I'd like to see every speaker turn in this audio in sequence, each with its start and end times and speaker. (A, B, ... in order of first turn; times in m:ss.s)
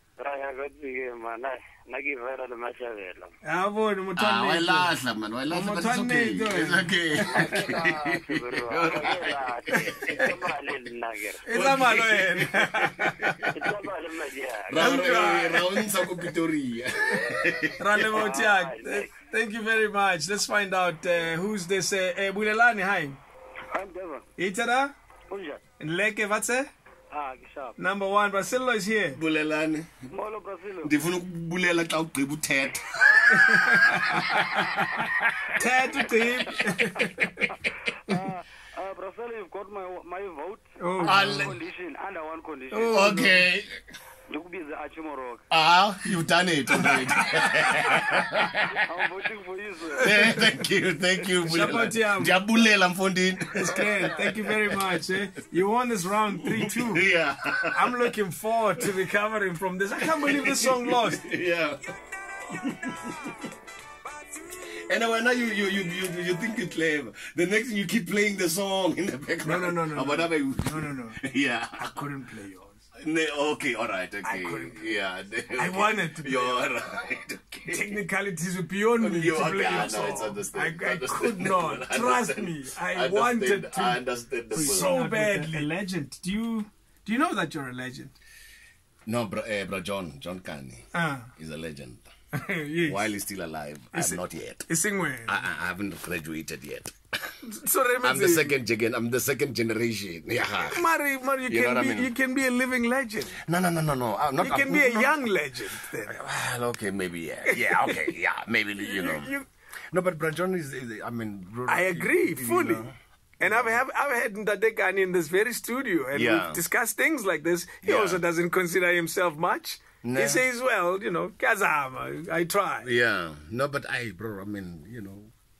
0:00.2-0:03.3 A
0:03.4-0:04.9 B
0:04.2-0:10.4 C
0:05.5-0:07.6 B
0:07.3-0:11.4 A
0:11.4-0:13.5 B
0:11.5-0:13.6 C
0:13.5-0:15.1 A
0:14.6-0:18.2 C
0:14.8-0:16.2 B
0:17.8-0:23.2 B
0:18.1-0:19.1 A
0:23.7-0:24.2 A
0:24.4-0:24.9 B
0:25.3-0:25.6 A
0:25.8-0:26.7 B
0:27.1-0:27.8 A
0:27.8-0:29.2 B
0:29.1-0:30.0 C
0:30.1-0:30.9 A
0:30.8-0:34.3 C
0:33.3-0:35.0 B
0:35.5-0:37.5 B
0:38.0-0:43.3 A
0:40.8-0:41.5 B
0:41.0-0:41.6 C
0:42.7-0:43.3 B
0:42.9-0:43.8 C
0:44.3-0:45.4 A
0:45.5-0:49.0 C
0:46.8-0:47.9 B
0:48.7-0:50.2 A
0:50.0-0:55.0 C
0:50.1-0:50.4 B
0:51.4-0:52.3 B
0:53.5-0:57.1 B
0:56.4-0:58.1 C
0:57.7-1:01.3 B
1:00.0-1:01.8 C
1:02.5-1:03.4 C
1:04.6-1:12.0 C
1:09.4-1:11.2 B
1:11.8-1:12.8 B
1:13.0-1:18.0 C
1:14.2-1:14.9 B
1:15.5-1:16.7 B
1:17.7-1:28.1 B
1:18.9-1:25.7 C
1:29.0-1:32.1 C
1:30.9-1:31.3 B
1:32.3-1:33.0 B
1:32.8-1:34.7 C
1:33.9-1:35.4 B
1:35.2-1:36.9 C
1:37.4-1:38.6 B
1:38.0-1:40.8 C
1:40.6-1:43.4 B
1:41.5-1:42.1 C
1:43.4-1:45.3 C
1:44.4-1:46.2 B
1:46.0-1:49.3 C
1:47.5-1:48.0 B
1:48.8-1:49.4 B
1:49.9-1:53.8 C
1:51.7-1:52.8 B
1:53.4-2:02.9 B
1:56.1-1:56.6 C
1:57.8-1:58.2 C
2:00.0-2:00.5 C
2:02.8-2:05.3 C